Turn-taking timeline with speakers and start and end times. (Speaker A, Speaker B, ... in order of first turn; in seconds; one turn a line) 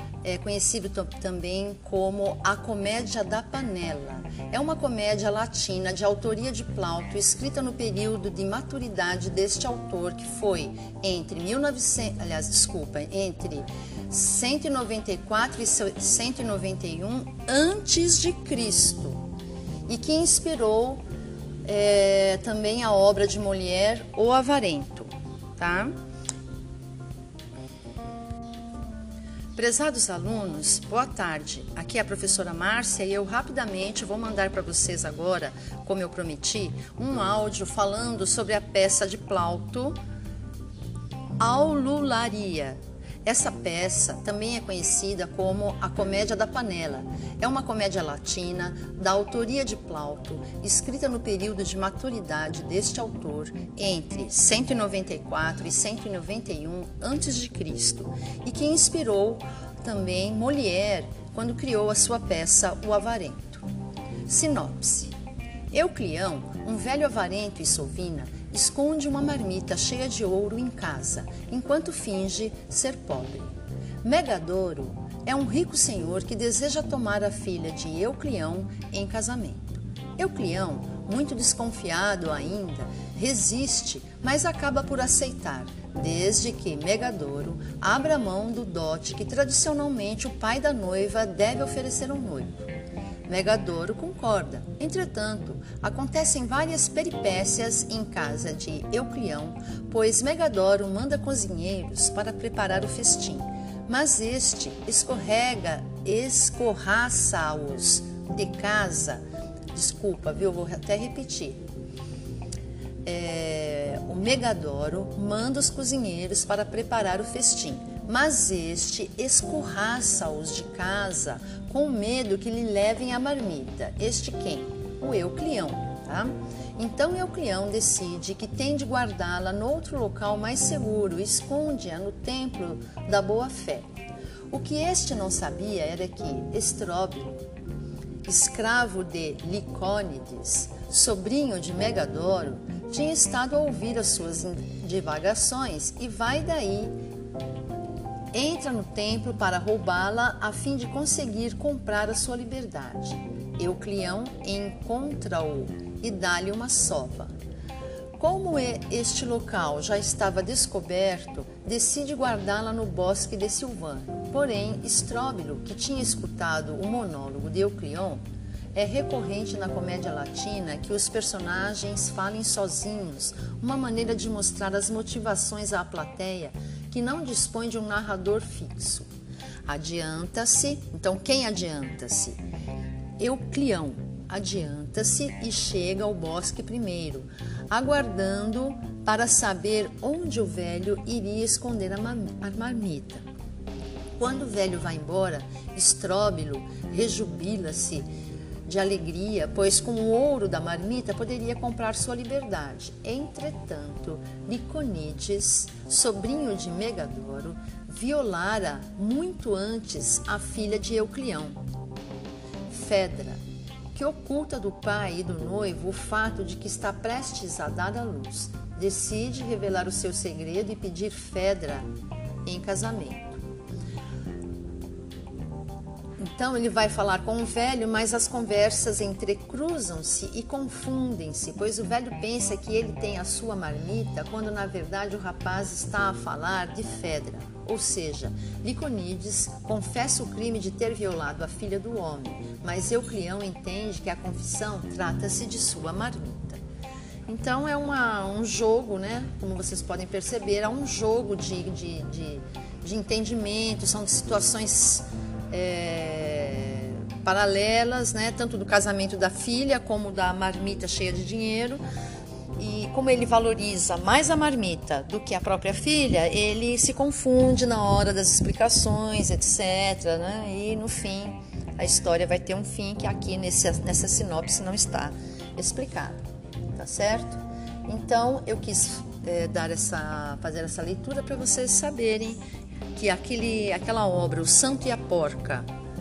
Speaker A: 0.2-19.2
Speaker A: 19.9-21.0
Speaker A: 21.6-25.9
Speaker A: 29.5-40.0
Speaker A: 41.4-63.7
Speaker A: 64.2-65.1
Speaker A: 65.7-92.7
Speaker A: 93.3-109.2
Speaker A: 109.7-111.6
Speaker A: 113.0-133.9
Speaker A: 134.5-137.3
Speaker A: 138.2-146.9
Speaker A: 148.3-157.3
Speaker A: 158.2-168.2
Speaker A: 168.7-179.1
Speaker A: 179.7-182.4
Speaker A: 183.2-193.2
Speaker A: 194.2-198.1
Speaker A: 198.7-211.6
Speaker A: 212.7-213.4
Speaker A: 213.9-221.9
Speaker A: 222.4-223.4
Speaker A: 226.2-246.6
Speaker A: 247.3-261.8
Speaker A: 262.6-276.2
Speaker A: 276.7-285.6